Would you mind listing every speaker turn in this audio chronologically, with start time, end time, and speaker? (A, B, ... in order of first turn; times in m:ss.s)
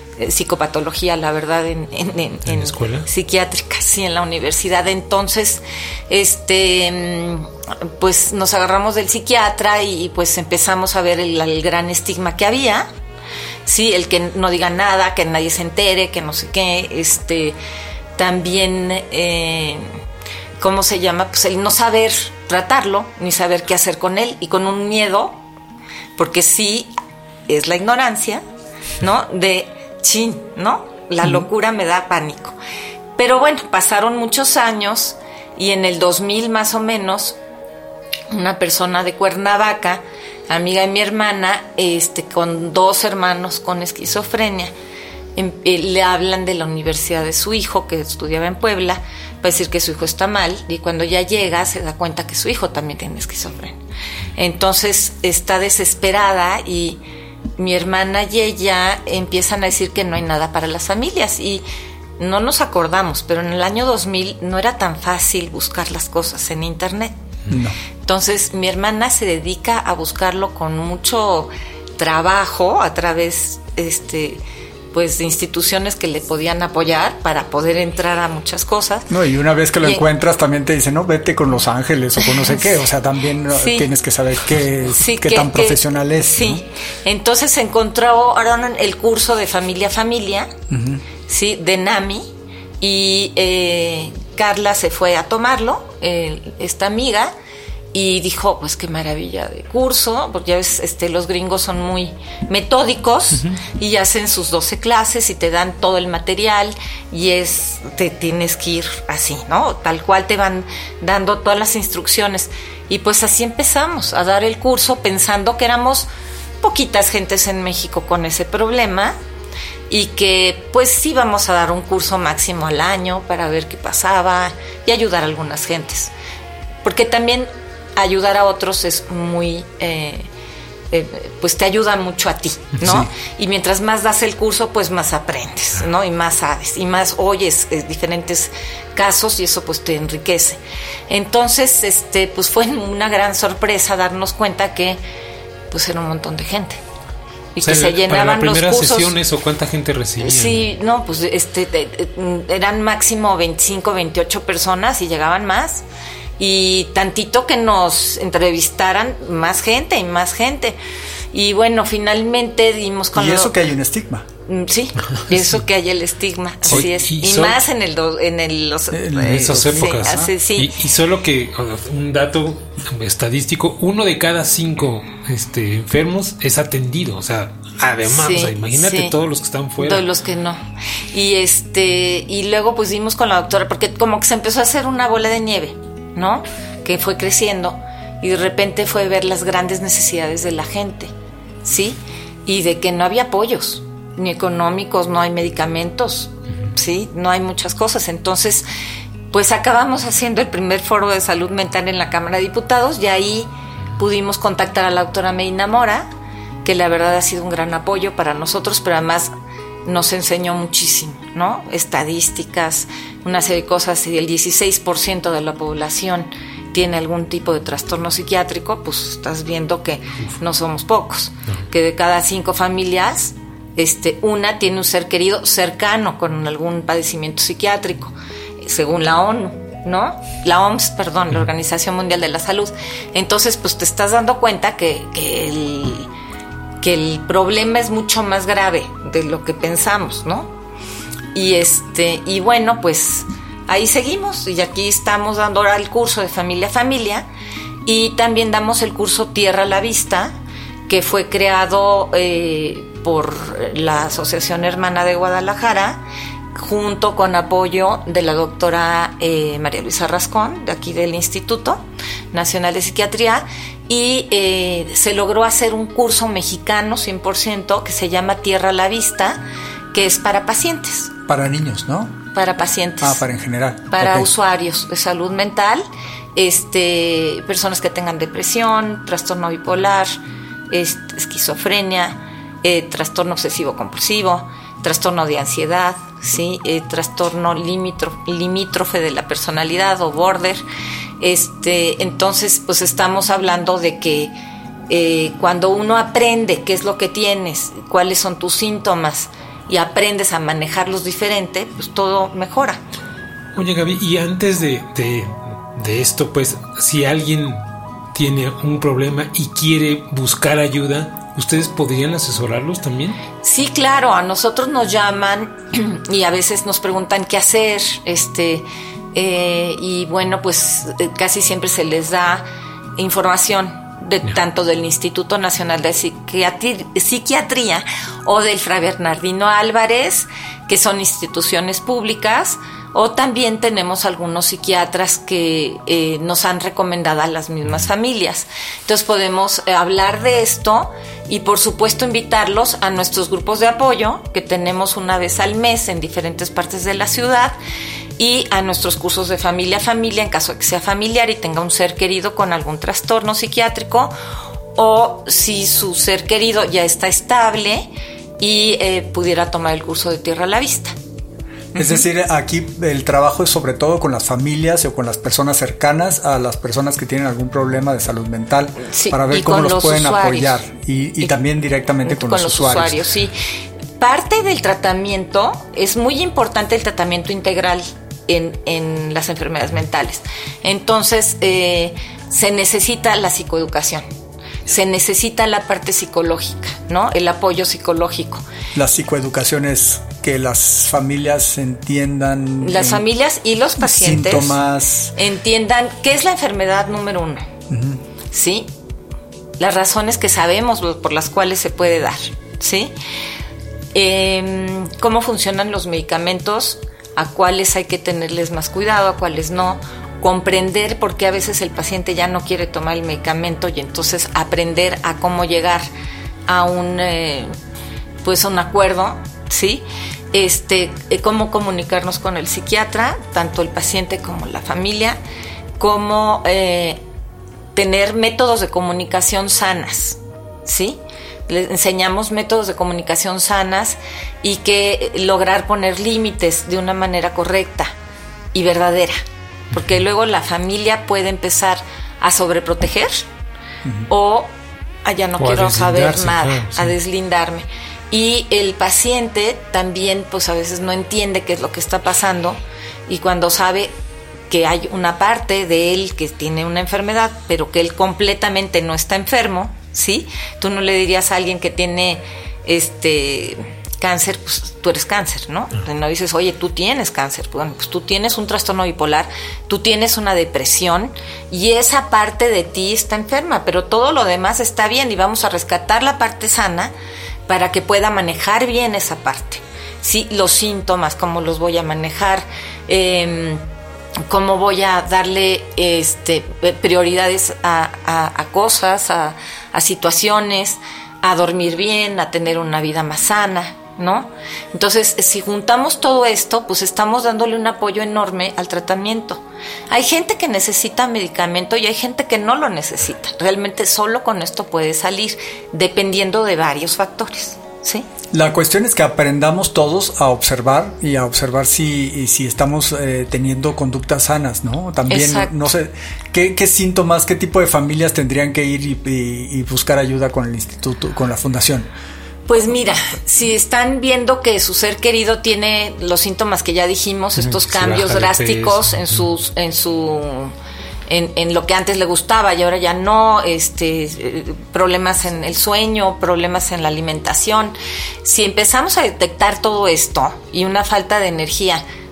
0:00.2-0:12.9 A
0:02.5-0:03.1 B
0:13.7-0:17.6 A
0:18.2-0:19.9 A
0:20.6-0:25.4 A
0:26.2-0:26.9 A
0:27.5-0:28.4 A
0:29.0-0:32.6 A
0:33.2-0:37.4 A
0:38.3-0:44.7 A
0:45.4-0:53.8 A
0:54.4-0:57.0 A
0:57.6-1:01.6 A
1:02.2-1:07.2 A
1:07.5-1:07.8 C
1:08.0-1:14.4 A
1:14.9-1:19.1 A
1:19.1-1:26.6 C
1:22.2-1:22.7 A
1:23.5-1:23.9 A
1:24.9-1:30.5 A
1:30.7-1:31.0 C
1:31.3-1:32.3 A
1:32.8-1:37.3 A
1:37.9-1:56.1 A
1:43.4-1:43.6 B
1:56.6-1:59.2 A
1:59.9-2:06.1 A
2:06.8-2:10.3 A
2:10.9-2:25.0 A
2:12.8-2:13.1 C
2:25.7-2:26.8 A
2:27.6-2:29.1 A
2:27.6-2:30.7 B
2:30.2-2:35.8 A
2:36.4-2:40.8 A
2:41.3-2:43.5 A
2:43.2-2:44.3 C
2:44.5-2:50.7 A
2:45.1-2:45.6 B
2:46.7-2:47.6 B
2:48.9-2:50.3 C
2:49.2-3:00.1 B
2:58.1-2:59.1 A
2:59.8-3:11.1 A
3:11.6-3:18.7 A
3:19.3-3:26.1 A
3:26.6-3:29.3 A
3:29.8-3:56.1 A
3:56.8-4:00.5 A
4:01.3-4:07.3 A
4:07.9-4:10.3 A
4:10.9-4:29.4 A
4:29.9-4:31.1 A
4:31.3-4:32.2 C
4:32.3-4:33.2 A
4:33.0-4:34.3 C
4:33.9-4:40.1 A
4:40.7-4:50.6 A
4:51.2-4:54.3 A
4:54.9-5:02.8 A
5:03.6-5:13.2 B
5:13.4-5:47.6 A
5:48.2-5:54.1 A
5:54.8-6:01.0 A
6:01.8-6:02.0 A
6:01.8-6:13.0 C
6:08.8-6:10.6 A
6:12.0-6:13.4 A
6:14.0-6:24.0 A
6:24.7-6:28.4 A
6:28.8-6:33.0 C
6:32.6-6:34.6 A
6:33.8-6:35.1 C
6:35.2-6:37.5 A
6:37.7-6:38.0 C
6:38.3-6:38.7 A
6:39.6-6:42.9 A
6:43.9-6:55.9 A
6:56.5-6:57.5 A
6:58.2-7:05.2 A
7:05.8-7:07.0 A
7:07.8-7:17.9 A
7:18.5-7:19.2 A
7:19.7-7:23.3 A
7:24.1-7:24.5 A
7:25.0-7:33.9 A
7:25.4-7:27.0 B
7:34.5-7:56.9 A
7:57.5-8:03.6 A
8:04.3-8:28.1 A
8:28.3-8:41.9 C
8:35.1-8:35.6 A
8:42.5-8:50.5 A
8:47.4-8:49.2 B
8:51.1-9:01.8 A